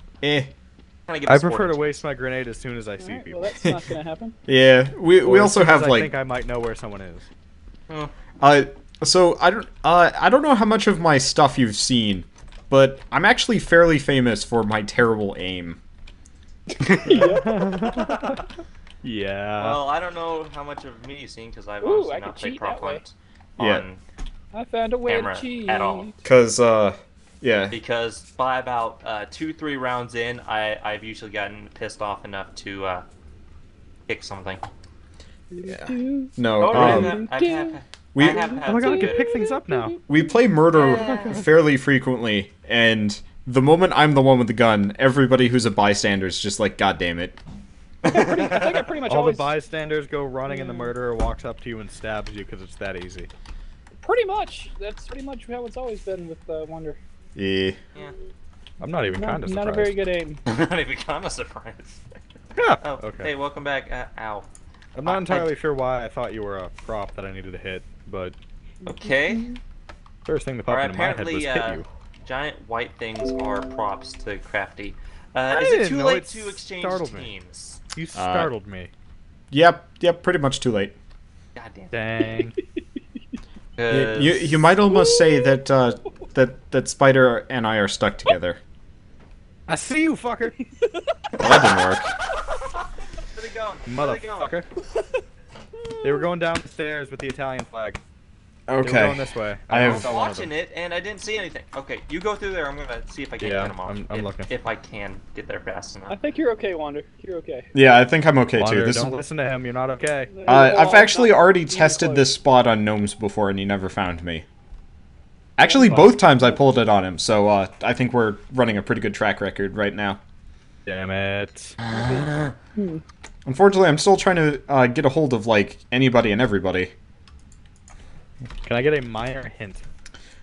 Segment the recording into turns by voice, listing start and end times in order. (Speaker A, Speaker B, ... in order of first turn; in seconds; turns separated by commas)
Speaker A: 0.2-0.5, Speaker B: 1.1-2.0, Speaker C: 1.2-3.5, Speaker D: 3.0-4.3, Speaker A: 4.5-6.1, Speaker C: 5.2-7.3, Speaker A: 8.4-15.8, Speaker D: 17.0-18.4, Speaker C: 17.1-18.4, Speaker C: 19.0-19.8, Speaker B: 19.6-24.0, Speaker D: 21.8-23.0, Speaker A: 23.6-23.8, Speaker D: 24.5-26.1, Speaker B: 25.1-26.1, Speaker A: 26.2-27.8, Speaker B: 27.7-33.0, Speaker B: 34.1-34.6, Speaker D: 35.5-40.2, Speaker A: 35.6-37.1, Speaker B: 36.6-39.3, Speaker C: 36.7-37.1, Speaker A: 38.1-38.5, Speaker C: 38.6-40.0, Speaker A: 40.1-47.4, Speaker B: 40.7-41.4, Speaker D: 48.0-49.5, Speaker C: 49.0-53.3, Speaker D: 50.5-50.9, Speaker D: 54.0-57.0, Speaker A: 57.3-57.8, Speaker C: 58.8-60.0, Speaker D: 59.1-60.4, Speaker B: 60.5-62.0, Speaker C: 62.6-63.3, Speaker B: 62.8-64.5, Speaker C: 65.0-68.3, Speaker B: 65.0-65.5, Speaker D: 68.8-69.6, Speaker B: 68.8-69.5, Speaker C: 70.2-71.9, Speaker B: 70.7-77.8, Speaker C: 75.5-77.3, Speaker C: 77.9-78.9, Speaker A: 78.1-78.5, Speaker A: 79.5-80.9, Speaker B: 81.5-81.9, Speaker C: 81.9-82.5, Speaker D: 82.2-82.8, Speaker B: 83.8-84.7, Speaker A: 83.9-88.6, Speaker D: 84.8-85.6, Speaker C: 89.7-90.5, Speaker D: 90.6-91.0, Speaker A: 91.4-92.1, Speaker B: 93.3-94.5, Speaker C: 93.8-94.7, Speaker C: 96.0-98.0, Speaker A: 98.7-100.1, Speaker C: 98.8-100.5, Speaker B: 99.8-106.2, Speaker C: 103.4-104.5, Speaker D: 106.1-107.7, Speaker A: 107.7-109.2, Speaker C: 108.5-110.4, Speaker D: 110.3-112.3, Speaker A: 110.5-114.4, Speaker A: 115.6-120.2, Speaker D: 115.6-116.5, Speaker C: 115.9-116.1, Speaker C: 120.8-121.8, Speaker D: 121.9-123.0, Speaker B: 122.0-122.5, Speaker A: 123.5-126.9, Speaker C: 128.6-129.8